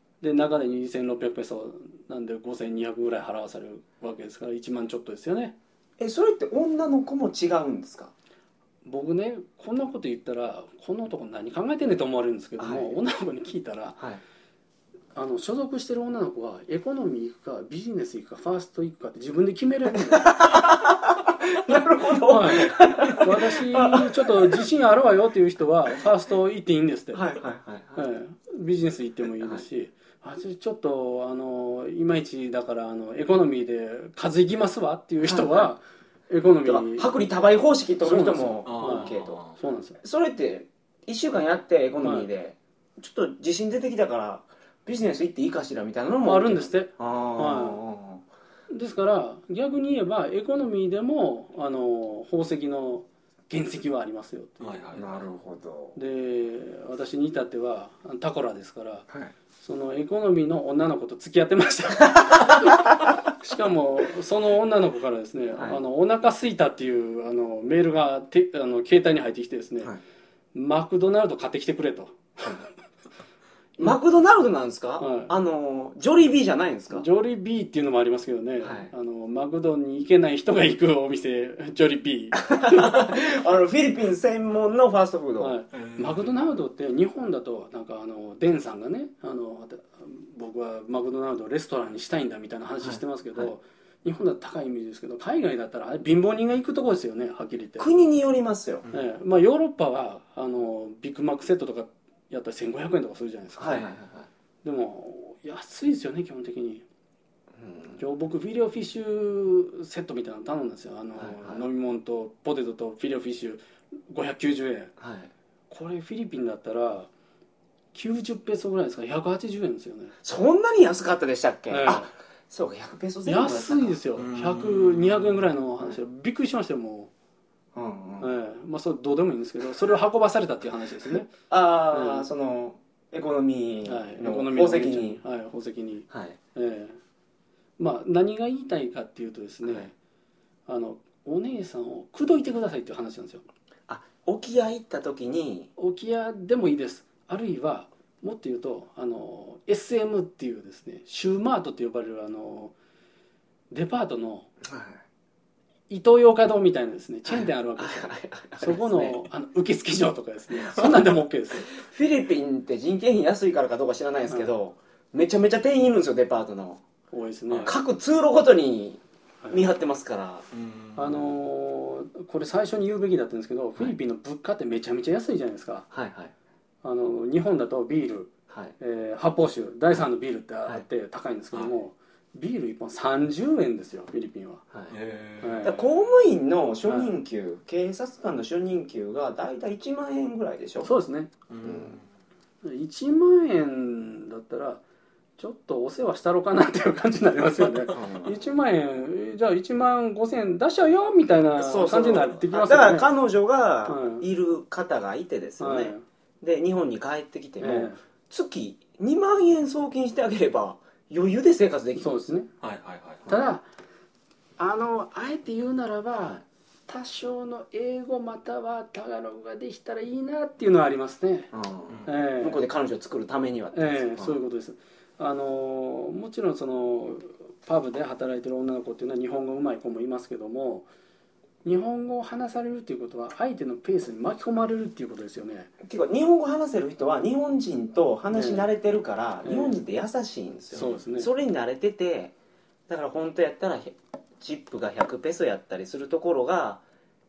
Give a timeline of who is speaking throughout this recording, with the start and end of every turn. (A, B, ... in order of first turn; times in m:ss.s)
0:00.2-0:05.5 A
0:06.0-0:08.1 B
0:08.8-0:14.0 A
0:12.6-0:12.9 B
0:15.1-0:20.3 A
0:20.1-0:24.6 B
0:22.2-0:27.2 A
0:27.1-0:28.1 B
0:28.0-0:37.1 A
0:35.2-0:35.7 B
0:36.6-0:39.4 B
0:38.0-0:40.0 A
0:38.6-0:39.6 C
0:40.0-0:48.2 B
0:42.0-0:42.3 A
0:46.2-0:47.8 A
0:48.7-0:54.9 A
0:54.6-0:55.1 C
0:54.9-0:56.0 B
0:55.9-0:59.1 A
0:59.6-1:09.9 A
1:05.6-1:05.8 B
1:10.5-1:12.7 A
1:13.8-1:17.0 B
1:15.0-1:15.3 A
1:16.9-1:23.0 A
1:18.6-1:18.9 B
1:22.4-1:25.6 B
1:25.4-1:37.9 A
1:25.7-1:26.3 C
1:32.8-1:33.5 B
1:37.8-1:38.8 B
1:38.9-1:43.9 A
1:43.6-1:44.3 B
1:44.6-1:46.8 A
1:47.6-1:48.0 B
1:48.0-1:54.9 A
1:51.2-1:51.6 B
1:55.0-1:55.3 B
1:55.7-1:57.1 A
1:57.9-2:00.1 A
2:00.2-2:04.0 B
2:01.7-2:02.1 A
2:03.2-2:07.1 A
2:04.2-2:05.4 C
2:07.7-2:08.3 B
2:08.2-2:11.3 A
2:11.1-2:15.2 B
2:11.9-2:12.3 A
2:13.8-2:17.0 A
2:16.1-2:16.4 B
2:17.8-2:19.9 A
2:19.6-2:19.9 B
2:20.7-2:23.4 A
2:23.9-2:25.7 B
2:25.8-2:32.7 A
2:33.7-2:34.5 A
2:34.6-2:35.0 B
2:35.9-2:41.7 A
2:37.2-2:39.2 B
2:41.7-2:46.8 B
2:47.1-2:47.7 A
2:47.5-2:50.4 B
2:50.5-2:51.3 C
2:51.0-2:55.8 A
2:55.9-2:56.3 B
2:56.8-3:04.6 A
2:58.5-2:58.7 B
3:04.9-3:05.8 C
3:05.4-3:05.8 A
3:05.6-3:10.9 B
3:06.8-3:07.1 A
3:10.8-3:11.3 A
3:11.5-3:12.0 C
3:11.6-3:12.0 B
3:12.6-3:14.8 A
3:15.4-3:23.1 A
3:17.8-3:18.4 B
3:21.6-3:32.3 B
3:23.8-3:24.2 A
3:25.6-3:26.0 A
3:27.6-3:28.0 A
3:32.0-3:32.5 A
3:32.6-3:33.2 C
3:33.3-3:33.6 A
3:34.6-3:41.5 A
3:41.5-3:44.4 B
3:41.9-3:42.1 C
3:42.0-3:42.6 A
3:43.7-3:50.9 A
3:51.6-3:55.7 A
3:55.8-4:02.3 B
3:58.3-3:58.6 A
3:59.4-3:59.8 A
4:00.7-4:01.3 A
4:02.9-4:06.8 B